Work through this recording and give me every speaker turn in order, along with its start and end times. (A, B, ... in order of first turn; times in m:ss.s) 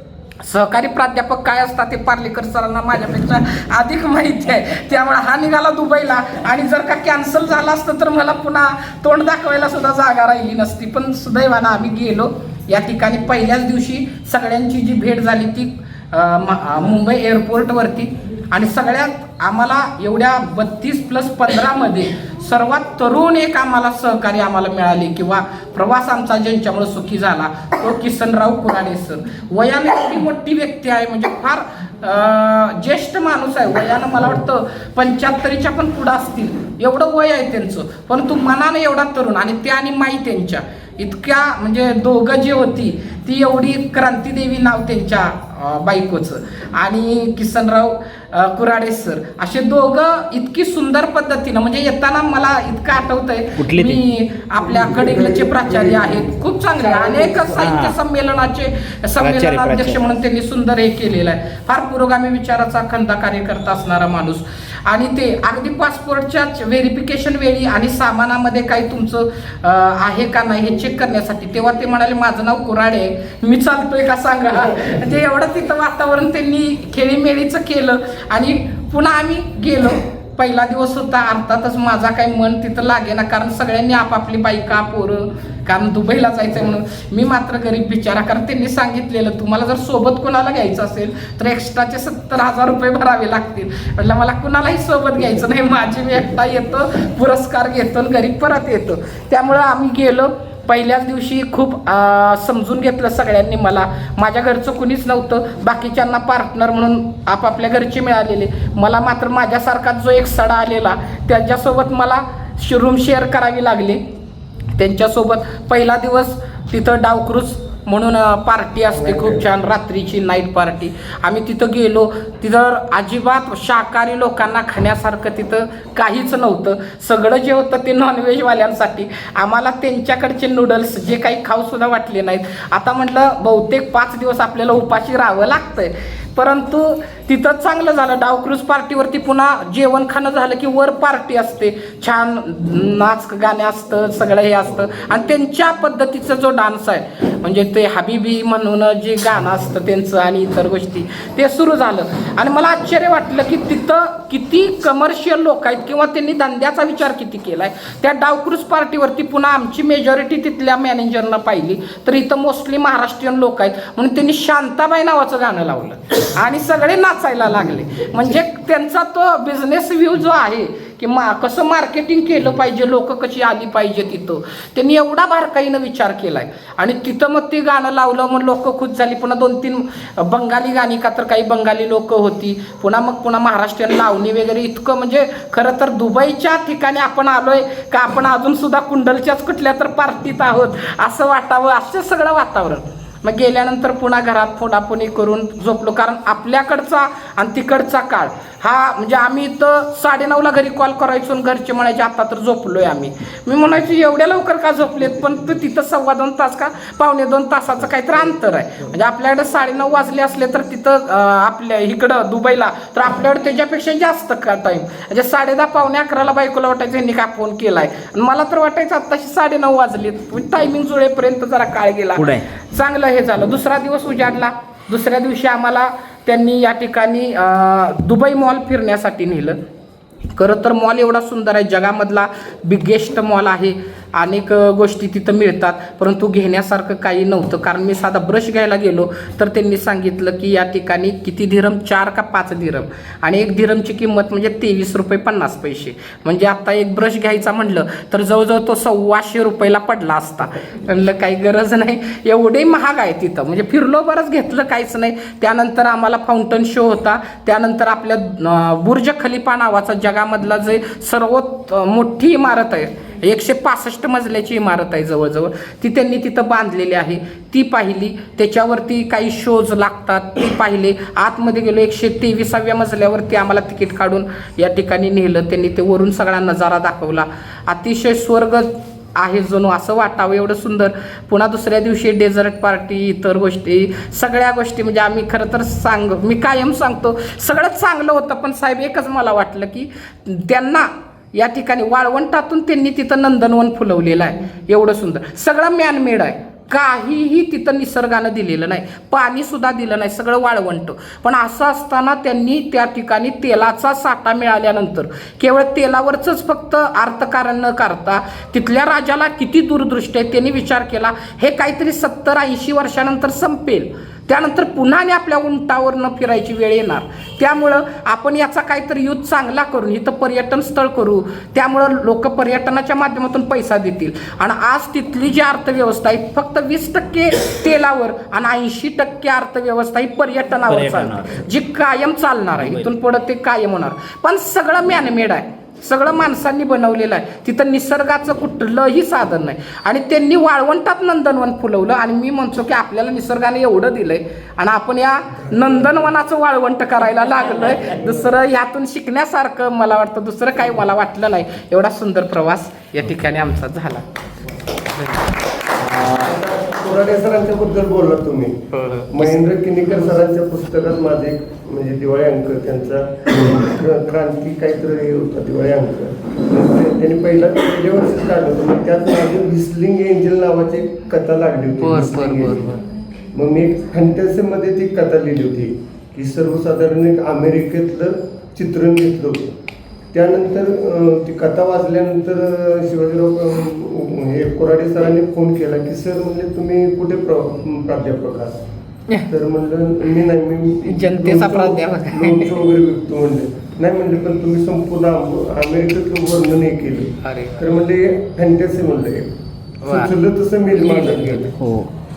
0:00.4-1:54.0 A
0:53.6-0:54.0 B
0:54.6-0:57.7 C
0:57.6-0:58.0 B
0:59.2-1:00.0 B
1:54.8-3:49.6 A
1:58.9-1:59.4 C
3:42.2-3:42.5 B
3:50.4-5:54.1 A
5:30.7-5:31.5 B
5:32.6-5:32.9 B
5:45.5-5:46.0 C
5:47.9-5:48.2 C
5:54.9-5:55.3 A
5:55.8-5:56.4 B
5:56.2-5:58.6 C
5:58.7-5:59.2 A
5:59.1-6:12.8 C
6:11.8-6:12.8 A
6:13.3-6:19.5 C
6:20.1-6:28.5 C
6:29.3-6:39.3 C
6:30.9-6:32.6 A
6:37.2-6:37.6 A
6:39.8-6:40.1 A
6:39.9-6:41.5 C
6:40.7-6:41.6 A
6:41.6-6:41.9 B